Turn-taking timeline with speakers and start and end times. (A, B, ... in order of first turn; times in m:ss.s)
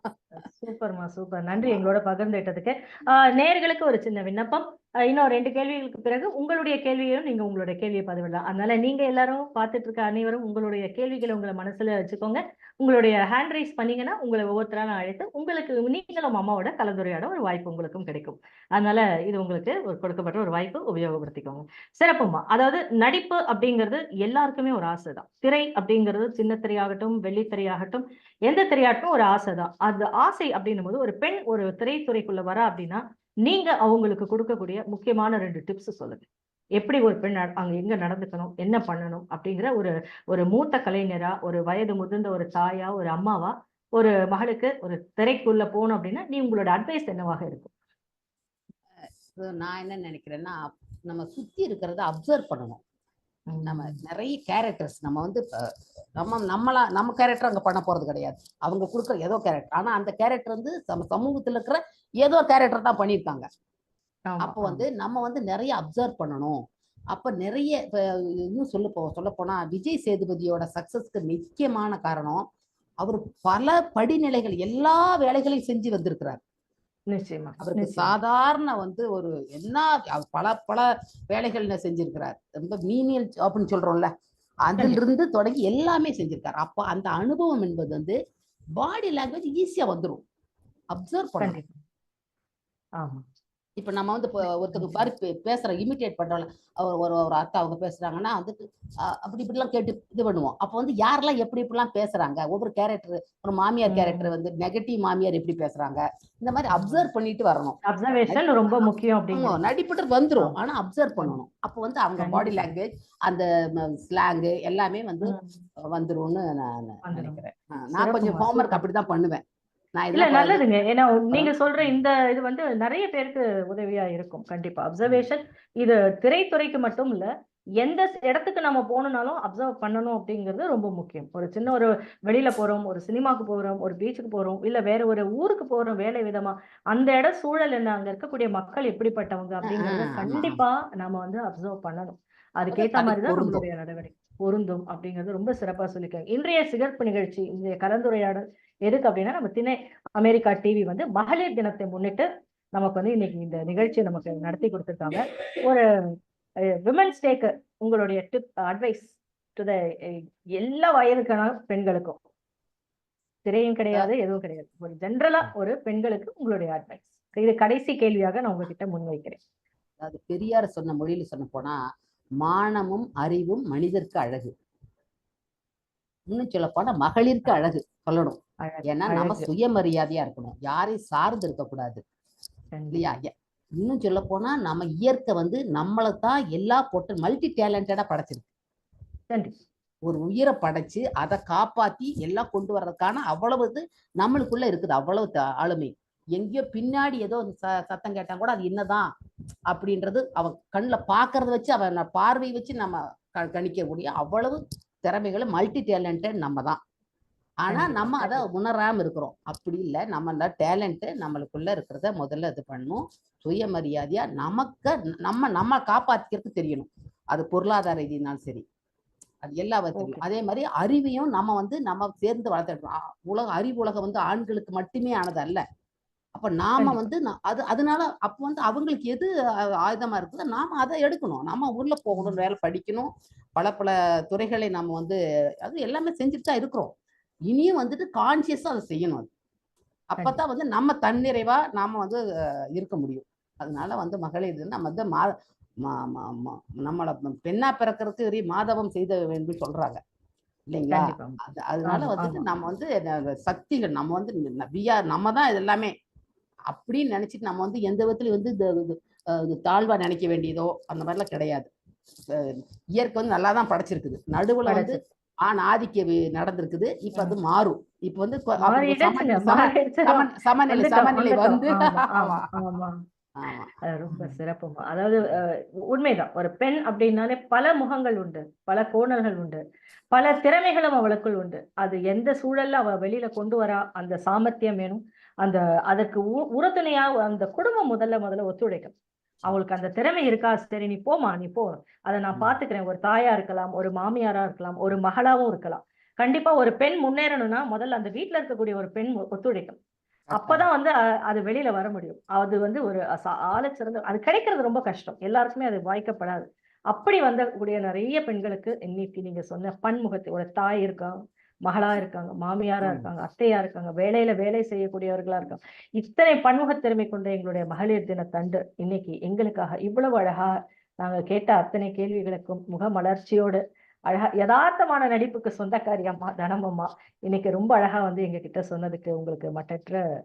0:00.3-0:36.2 A
0:01.6-0:01.9 B
0:36.8-0:47.7 A
0:49.3-0:52.8 B
0:53.5-0:54.0 A
0:53.6-0:55.4 B
0:56.2-1:03.4 B
1:04.3-1:04.8 A
1:04.4-1:06.6 B
1:07.1-1:12.4 B
1:13.0-1:16.4 B
1:17.1-1:18.1 A
1:17.6-1:24.1 B
1:24.6-1:28.2 B
1:24.8-1:25.0 A
1:28.8-1:30.2 B
1:30.9-1:31.6 B
1:31.4-1:31.8 A
1:33.8-1:55.3 B
1:34.7-1:35.1 A
1:43.9-1:44.3 A
1:46.8-1:47.1 A
1:47.8-1:49.6 A
1:52.2-1:52.6 A
1:55.2-1:55.6 A
1:55.9-1:59.4 B
1:57.0-1:57.4 A
1:58.0-1:58.8 A
1:59.9-2:00.6 B
2:00.1-2:07.2 A
2:01.3-2:02.0 B
2:07.8-2:35.8 A
2:19.6-2:20.6 B
2:22.7-2:23.6 B
2:36.8-2:42.2 A
2:43.4-2:49.4 A
2:50.0-2:51.8 B
2:52.4-2:54.5 B
2:56.3-3:02.0 B
2:58.6-2:59.5 A
3:02.7-3:03.0 A
3:02.9-3:08.5 B
3:10.1-3:19.1 B
3:19.7-3:26.8 B
3:27.6-3:38.6 B
3:27.7-3:28.4 A
3:39.4-3:45.6 B
3:40.0-3:40.2 A
3:46.3-3:56.9 B
3:46.8-3:47.1 A
3:52.1-3:52.4 A
3:57.5-3:59.3 B
4:00.2-4:02.2 B
4:02.7-4:05.3 B
4:05.8-4:10.0 B
4:10.7-4:15.9 B
4:10.9-4:12.4 A
4:16.7-4:21.7 B
4:22.3-4:32.6 B
4:24.7-4:25.0 A
4:28.6-4:32.9 A
4:33.4-4:34.4 B
4:33.8-4:39.6 A
4:40.1-4:48.9 A
4:49.4-4:59.8 A
5:00.3-5:00.7 B
5:00.3-5:11.1 A
5:11.7-5:20.5 A
5:12.8-5:13.1 B
5:21.0-5:30.0 A